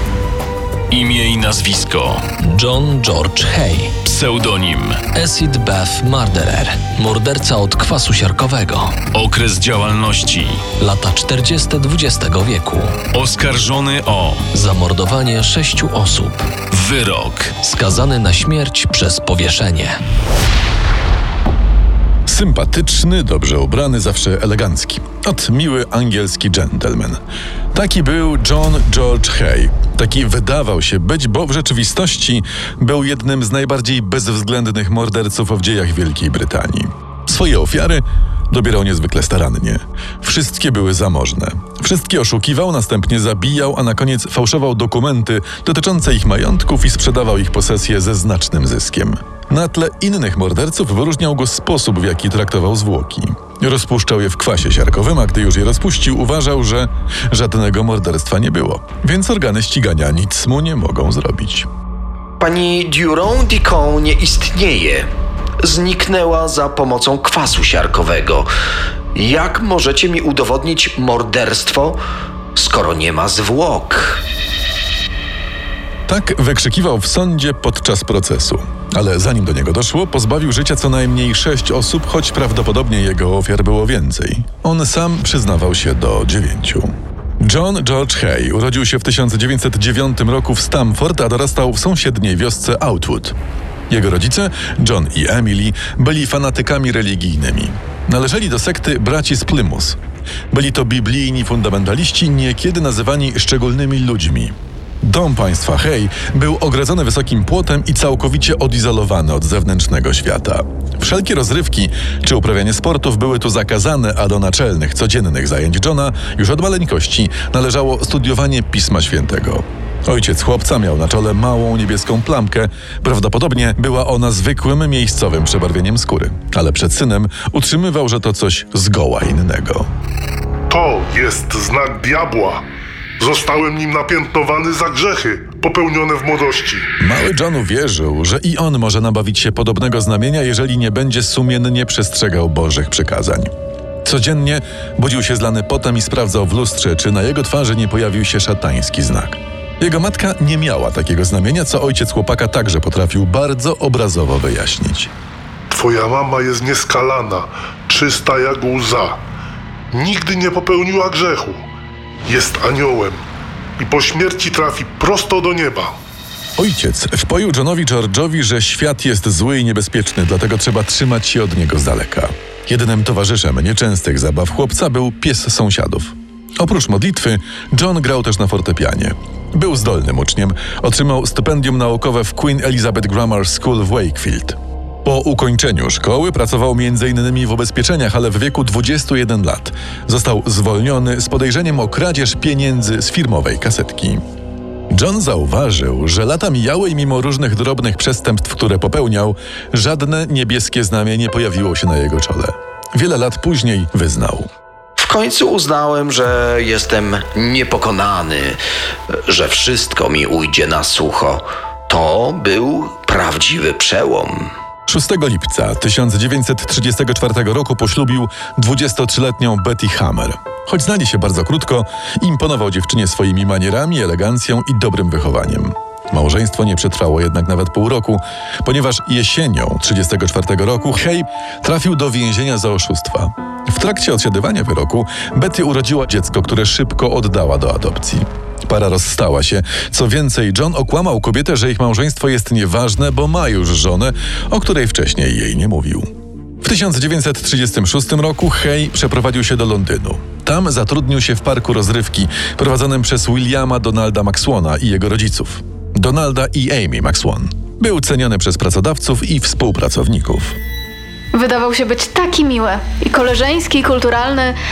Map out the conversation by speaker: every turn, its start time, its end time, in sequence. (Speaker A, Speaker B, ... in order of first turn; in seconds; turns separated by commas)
Speaker A: 0.9-2.2, Speaker B: 2.4-4.0, Speaker A: 4.0-5.0, Speaker B: 5.1-9.0, Speaker A: 9.1-10.7, Speaker B: 10.8-13.0, Speaker A: 13.1-14.4, Speaker B: 14.5-16.5, Speaker A: 16.7-17.6, Speaker B: 17.6-20.0, Speaker C: 22.3-27.2, Speaker C: 27.7-61.7, Speaker D: 62.4-65.1, Speaker D: 65.6-68.5, Speaker D: 69.1-72.0, Speaker D: 72.5-74.2, Speaker C: 76.1-86.9, Speaker C: 87.4-93.3, Speaker C: 93.9-100.0, Speaker C: 100.5-129.9, Speaker E: 130.7-132.6, Speaker E: 133.2-136.8, Speaker C: 137.0-143.5, Speaker C: 144.1-155.1, Speaker E: 155.7-159.2, Speaker E: 159.9-161.6, Speaker E: 162.3-163.2, Speaker E: 163.8-165.9, Speaker C: 166.6-194.2, Speaker C: 194.9-204.5, Speaker D: 205.0-208.6, Speaker D: 209.3-214.5, Speaker C: 214.9-246.1, Speaker C: 246.6-260.6, Speaker F: 261.4-264.5